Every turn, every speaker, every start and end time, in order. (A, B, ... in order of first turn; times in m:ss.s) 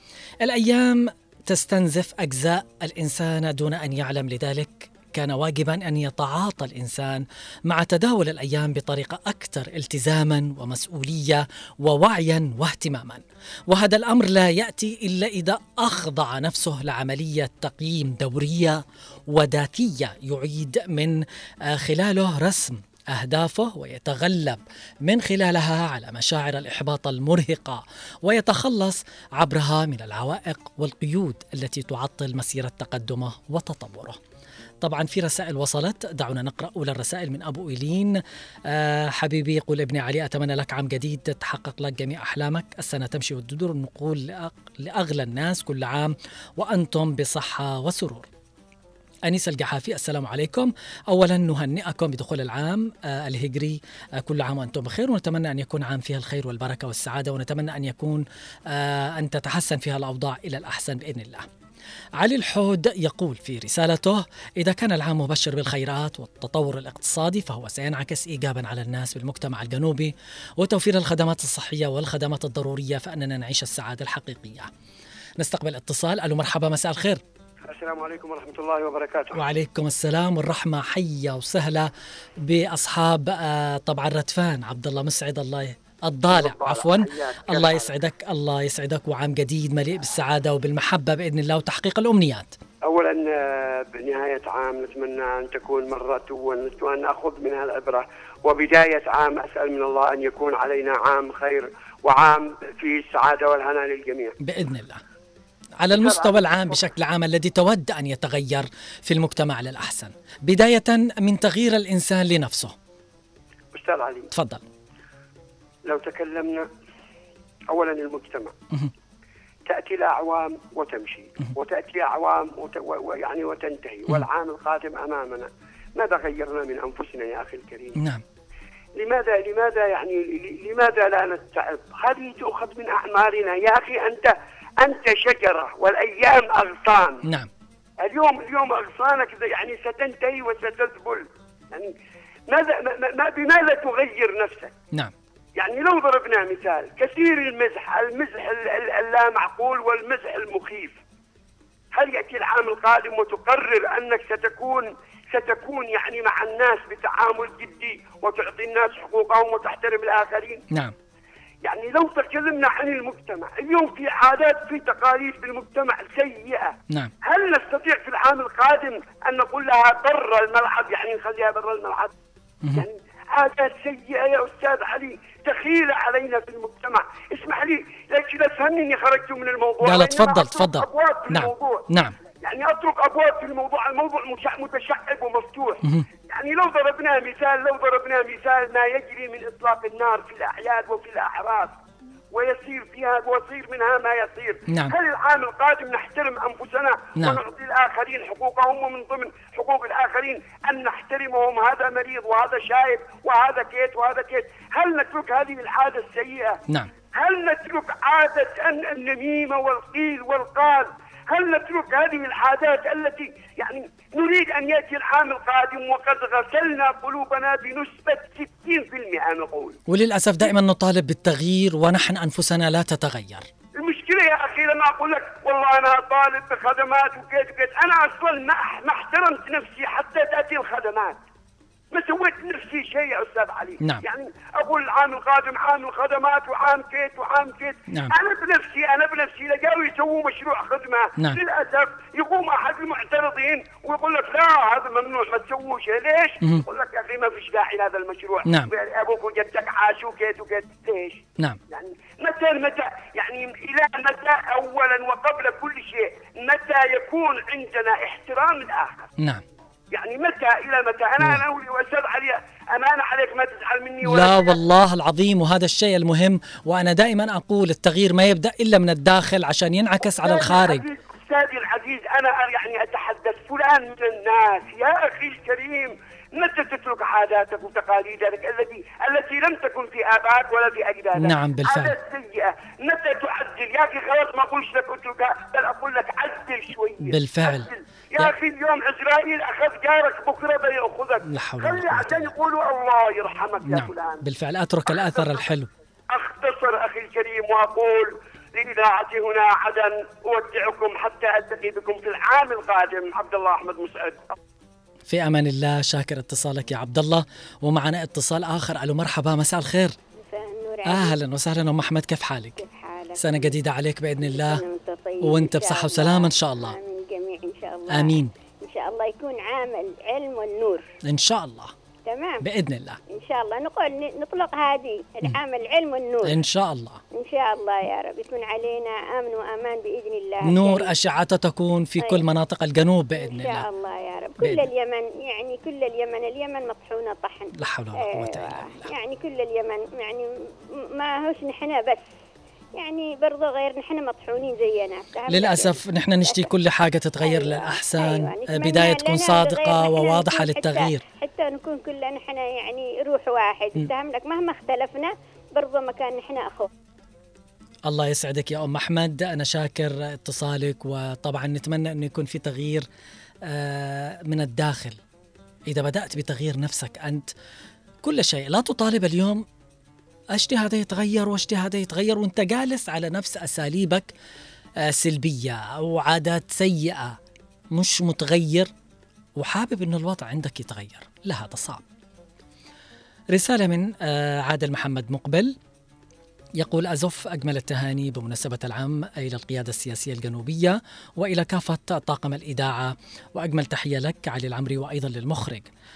0:00.4-0:34.2 A
0:34.8-0:38.2 A
0:38.7-0:48.3 A
0:49.3-1:01.5 A
1:02.2-1:14.7 A
1:15.4-1:17.2 A
1:17.6-1:19.4 B
1:19.3-1:21.9 A
1:22.4-1:32.5 A
1:26.3-1:27.9 B
1:32.8-1:44.4 B
1:44.4-1:45.0 A
1:45.8-1:52.7 A
1:45.9-1:46.5 B
1:53.7-1:54.3 B
1:54.3-1:54.6 A
1:55.8-1:56.7 B
1:57.7-1:58.5 B
1:59.7-2:08.0 B
2:08.0-2:08.2 A
2:09.0-2:17.2 B
2:18.0-2:21.9 B
2:22.5-2:24.7 B
2:25.6-2:31.0 B
2:31.9-2:40.6 B
2:41.6-2:52.1 B
2:52.8-3:01.8 B
2:59.8-3:02.1 A
3:02.4-3:11.7 B
3:12.3-3:26.6 B
3:14.7-3:15.0 A
3:27.2-3:39.8 B
3:39.9-3:43.5 A
3:43.8-3:51.2 B
3:51.9-4:19.1 B
4:08.5-4:08.7 A
4:19.9-4:24.6 B
4:24.0-4:30.8 A
4:30.1-4:54.2 B
4:41.2-4:42.0 A
4:47.1-4:48.3 A
4:51.3-4:52.4 A
4:53.7-4:55.7 A
4:56.1-5:04.4 B
5:05.1-5:10.0 A
5:10.2-5:11.2 C
5:10.8-5:12.6 A
5:12.6-5:13.6 C
5:13.2-5:14.6 A
5:14.2-5:20.8 C
5:15.2-5:16.8 A
5:17.9-5:18.3 A
5:21.0-5:21.7 A
5:22.1-5:22.4 C
5:22.4-5:23.0 A
5:23.1-5:26.4 C
5:26.2-5:27.0 A
5:27.2-5:30.9 C
5:30.4-5:33.7 A
5:33.2-5:40.2 C
5:34.4-5:34.7 A
5:37.6-5:38.9 A
5:40.8-5:42.0 C
5:42.8-5:46.5 C
5:45.3-5:51.0 A
5:47.2-5:56.7 C
5:57.9-6:02.9 A
6:03.4-6:05.0 A
6:05.7-6:07.3 A
6:08.0-6:09.4 A
6:10.4-6:14.1 A
6:14.8-6:17.2 A
6:17.7-6:18.7 A
6:19.4-6:21.8 A
6:23.3-6:25.6 A
6:26.6-6:35.7 A